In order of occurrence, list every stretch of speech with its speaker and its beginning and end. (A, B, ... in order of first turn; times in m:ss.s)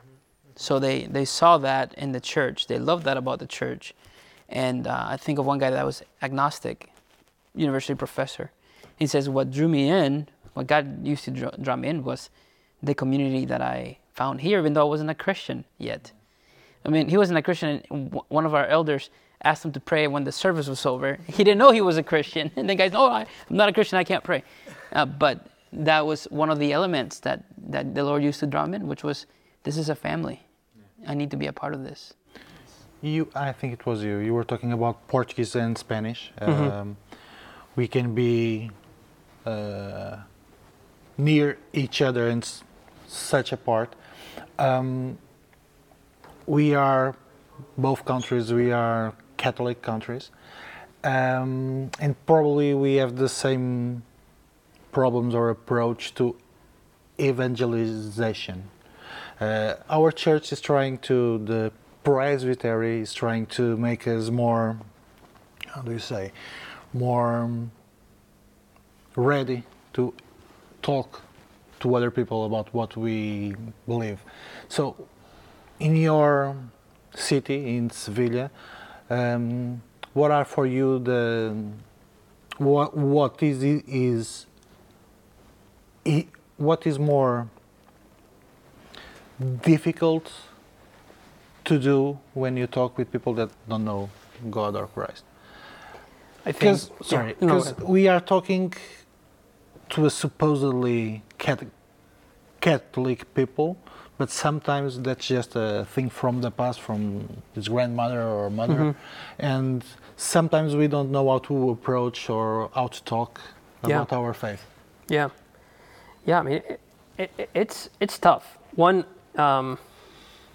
0:00.6-0:30.5 A
0:31.0-0:32.2 A
0:33.0-0:38.7 B
0:36.5-0:36.7 C
0:39.4-0:40.3 B
0:41.2-0:45.2 B
0:46.5-0:47.2 B
0:47.7-0:50.3 B
0:51.0-0:54.1 B
0:54.9-0:56.4 B
0:57.2-0:58.8 B
0:59.4-1:04.8 B
1:05.7-1:07.8 B
1:09.1-1:10.2 B
1:10.8-1:18.5 B
1:19.1-1:21.9 B
1:22.6-1:24.5 B
1:26.0-1:27.5 B
1:29.4-1:30.5 B
1:31.6-1:35.3 B
1:36.4-1:37.8 C
1:36.6-1:39.3 B
1:39.9-1:41.7 B
1:42.6-1:54.7 B
1:48.7-1:49.0 C
1:53.8-2:00.3 C